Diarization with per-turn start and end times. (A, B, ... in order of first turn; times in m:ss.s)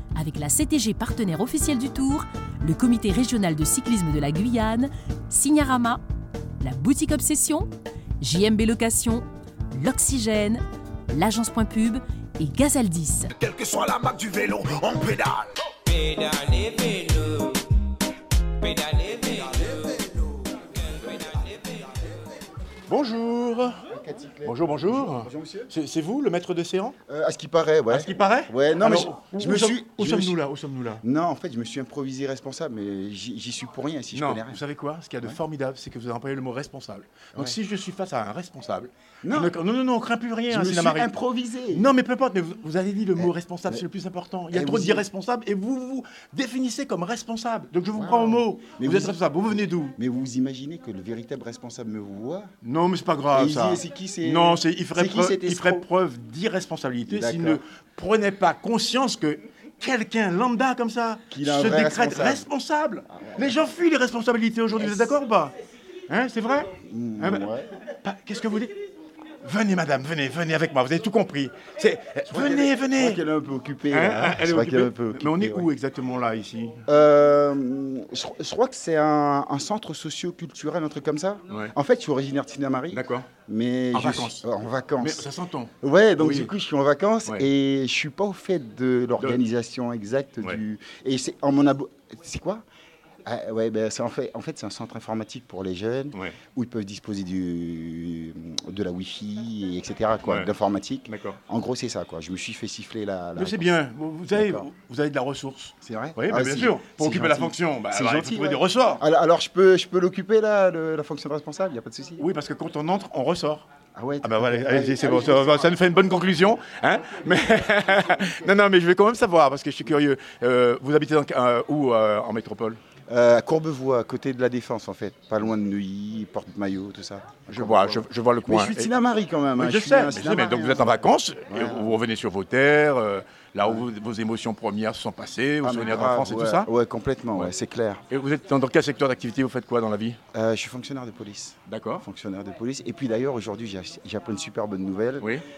0:00.1-0:06.0 A
0:06.6-0:07.7 A
0:08.2-0:13.3 A
0:13.3-0:16.1 B
0:16.0-0:17.6 C
0:16.4-0:17.1 A
0:18.6-0:19.2 C
0:19.3-0:20.5 B
0:22.9-0:23.8 D
0:23.9-0:25.7 E
0:24.4-0:27.0 D
0:27.0-0:30.4 E
0:27.9-0:31.0 D
0:31.0-0:34.6 E
0:34.1-0:41.1 D
0:39.2-0:39.5 E
0:40.5-0:41.9 E
0:41.7-0:50.0 D
0:43.2-0:43.8 E
0:44.5-0:45.0 E
0:47.9-0:49.2 E
0:50.0-0:52.5 E
0:52.6-1:05.5 D
0:53.3-0:55.9 E
0:57.1-0:57.6 E
1:01.3-1:02.4 E
1:03.2-1:03.5 E
1:04.8-1:05.1 E
1:06.1-1:08.7 D
1:06.8-1:07.7 E
1:09.4-1:13.2 D
1:12.3-1:15.7 E
1:13.9-1:16.8 D
1:16.9-1:25.3 E
1:22.9-1:23.3 D
1:23.9-1:24.4 D
1:25.0-1:26.5 D
1:25.8-1:32.6 E
1:33.2-1:43.8 E
1:40.3-1:40.5 D
1:41.1-1:41.4 D
1:43.4-1:49.0 D
1:44.3-1:44.7 E
1:45.8-1:52.3 E
1:52.2-1:53.6 D
1:53.9-1:55.8 E
1:54.2-2:02.8 D
1:57.7-1:58.4 E
2:03.1-2:11.0 E
2:07.5-2:08.9 D
2:09.6-2:16.7 D
2:11.5-2:12.0 E
2:15.6-2:18.0 E
2:18.1-2:20.2 D
2:20.3-2:25.4 E
2:21.6-2:22.0 D